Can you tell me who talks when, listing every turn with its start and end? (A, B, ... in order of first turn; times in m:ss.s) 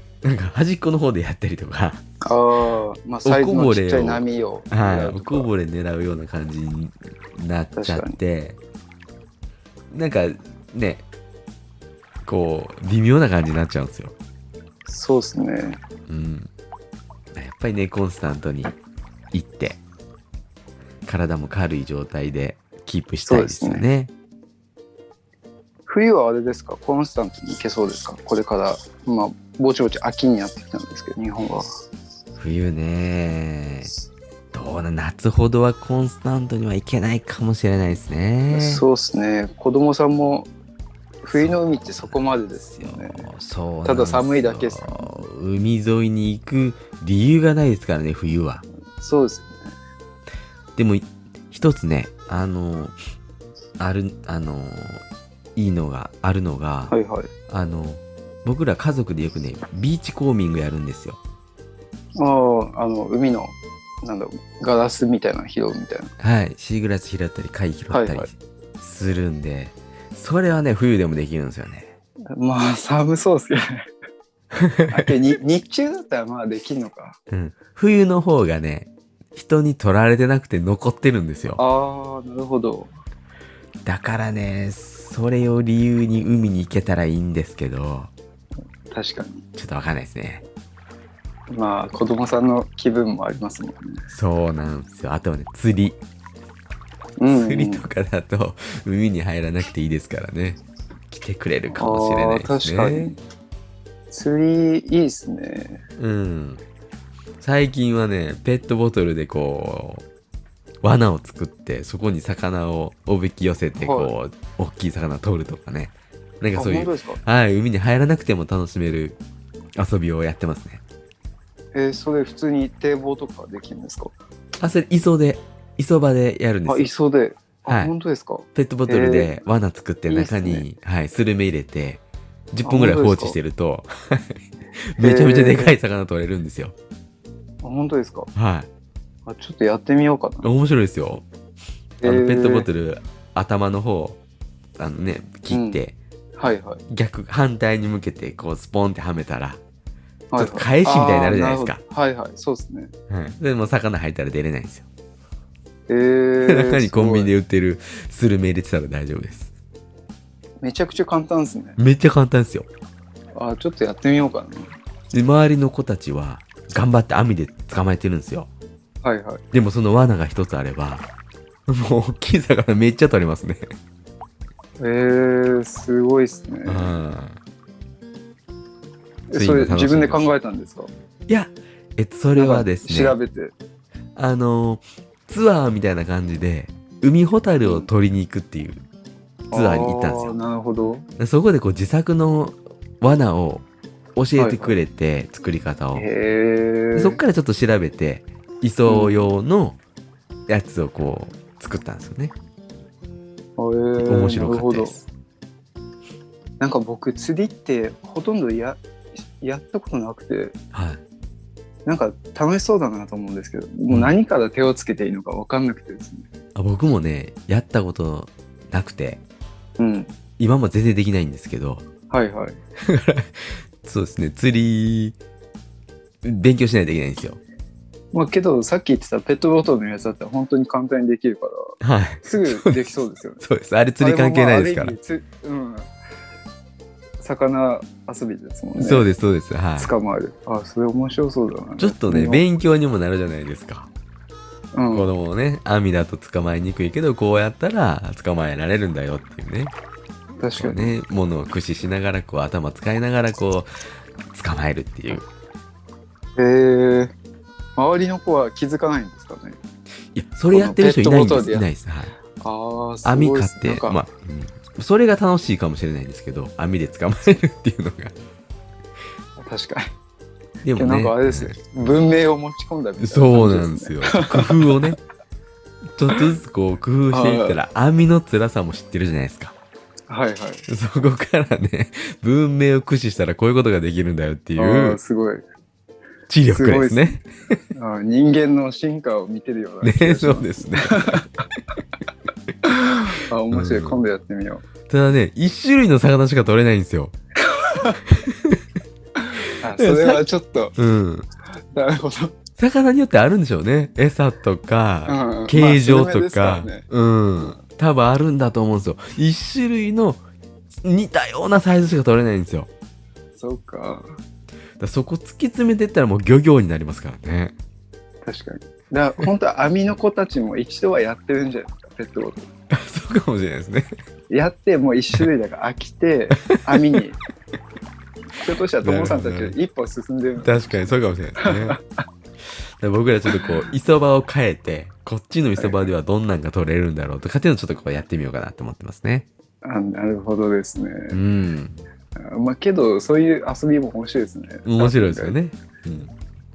0:00.2-0:02.0 A
0:02.2-0:05.5 B
0:03.2-0:08.6 A
0:07.8-0:08.2 B
0:09.9-0:11.0 A
0:12.2-0:14.2 A
0:14.9-0:15.8 B
0:16.1-0:16.5 A
0:17.4-0:18.8 A
0:19.3-0:19.8 A
0:21.0-0:24.1 A
0:23.2-0:23.8 B
0:25.9-0:31.7 B
0:32.4-0:33.9 A
0:34.5-0:38.8 A
0:38.5-0:40.5 B
0:41.2-0:43.3 B
0:41.3-0:42.2 A
0:42.8-0:48.6 A
0:43.8-0:45.2 B
0:49.0-0:49.7 B
0:50.8-0:53.0 A
0:53.8-0:55.0 A
0:55.6-0:56.9 A
0:56.9-0:57.3 B
0:57.5-1:01.2 A
1:02.2-1:06.1 B
1:06.2-1:11.9 A
1:07.9-1:08.3 B
1:12.3-1:13.9 B
1:14.5-1:15.1 A
1:14.9-1:17.2 B
1:17.3-1:21.6 A
1:21.6-1:23.0 B
1:23.8-1:28.1 A
1:28.9-1:29.4 B
1:29.6-1:30.4 A
1:31.5-1:34.0 B
1:34.1-1:36.0 A
1:37.2-1:37.9 B
1:37.3-1:43.2 A
1:41.7-1:43.2 B
1:44.1-1:45.8 B
1:46.0-1:46.6 A
1:47.4-1:50.0 A
1:50.8-1:59.2 A
1:53.8-1:54.1 B
1:56.6-1:57.2 B
1:59.8-2:00.8 A
2:01.7-2:04.2 B
2:04.6-2:06.9 A
2:06.7-2:09.4 B
2:07.7-2:07.9 A
2:08.6-2:16.7 A
2:10.1-2:10.7 B
2:12.6-2:13.4 B
2:15.0-2:15.7 B
2:17.6-2:18.3 B
2:18.4-2:18.7 A
2:19.3-2:20.5 B
2:20.4-2:21.2 A
2:22.0-2:22.7 B
2:22.0-2:24.2 A
2:24.8-2:26.0 A
2:25.5-2:25.8 B
2:26.4-2:26.8 B
2:26.9-2:29.6 A
2:30.3-2:32.9 B
2:30.4-2:31.8 A
2:33.1-2:34.9 A
2:35.9-2:37.3 B
2:36.5-2:39.5 A
2:40.6-2:41.8 B
2:41.8-2:42.7 A
2:43.4-2:44.7 B
2:45.1-2:48.5 A
2:49.0-2:49.4 B
2:49.5-2:51.1 A
2:51.7-2:53.7 A
2:54.8-2:57.0 B
2:56.7-2:57.4 A
2:59.3-3:00.9 B
2:59.3-3:00.3 A
3:01.3-3:03.2 A
3:02.4-3:03.5 B
3:04.2-3:08.8 A
3:07.6-3:07.9 B
3:09.5-3:10.4 A
3:09.5-3:11.0 B
3:11.2-3:13.6 A
3:14.2-3:16.0 A
3:14.4-3:14.8 B
3:16.0-3:17.2 B
3:17.0-3:19.8 A
3:18.9-3:19.3 B
3:20.5-3:22.3 A
3:23.6-3:25.0 B
3:24.0-3:25.1 A
3:26.6-3:28.8 B
3:29.3-3:30.6 B
3:30.7-3:31.0 A
3:31.9-3:36.3 B
3:36.6-3:39.2 A
3:39.8-3:40.1 B
3:40.4-3:41.8 A
3:42.1-3:42.6 B
3:42.8-3:45.2 A
3:46.2-3:47.4 A
3:48.1-3:53.4 B
3:51.8-3:55.0 A
3:54.0-3:55.9 B
3:57.2-3:59.1 B
3:58.8-3:59.9 A
3:59.8-4:02.4 B
4:01.8-4:03.9 A
4:04.7-4:05.1 B
4:04.9-4:09.8 A
4:10.4-4:11.0 B
4:10.6-4:13.7 A
4:14.3-4:15.3 A
4:16.4-4:17.1 B
4:17.8-4:19.6 B
4:20.1-4:22.2 A
4:20.5-4:21.7 B
4:22.4-4:24.0 B
4:23.0-4:28.1 A
4:29.4-4:29.9 B
4:30.6-4:32.0 A
4:30.7-4:34.8 B
4:33.0-4:35.0 A
4:36.0-4:39.5 A
4:37.1-4:37.6 B
4:40.1-4:40.7 B
4:40.7-4:45.0 A
4:44.6-4:45.4 B
4:46.3-4:47.6 A
4:46.5-4:51.4 B
4:49.8-4:51.2 A
4:52.6-4:54.6 B
4:53.5-4:54.0 A
4:54.9-4:57.1 A
4:57.5-4:58.0 B
4:58.1-4:58.6 A
4:59.6-5:00.8 B
4:59.8-5:00.2 A
5:00.8-5:01.3 A
5:01.6-5:02.4 B
5:02.6-5:10.2 A
5:05.1-5:06.9 B
5:10.8-5:12.7 A
5:13.4-5:14.1 B
5:14.8-5:17.5 A
5:18.2-5:22.5 B
5:22.7-5:23.9 A
5:24.3-5:27.2 B
5:26.7-5:27.0 A
5:28.4-5:30.8 B
5:28.8-5:29.6 A
5:30.4-5:31.8 A
5:31.4-5:32.0 B
5:32.4-5:39.3 A
5:35.6-5:35.9 B
5:39.6-5:41.2 B
5:41.1-5:41.8 A
5:42.2-5:45.4 B
5:44.6-5:46.1 A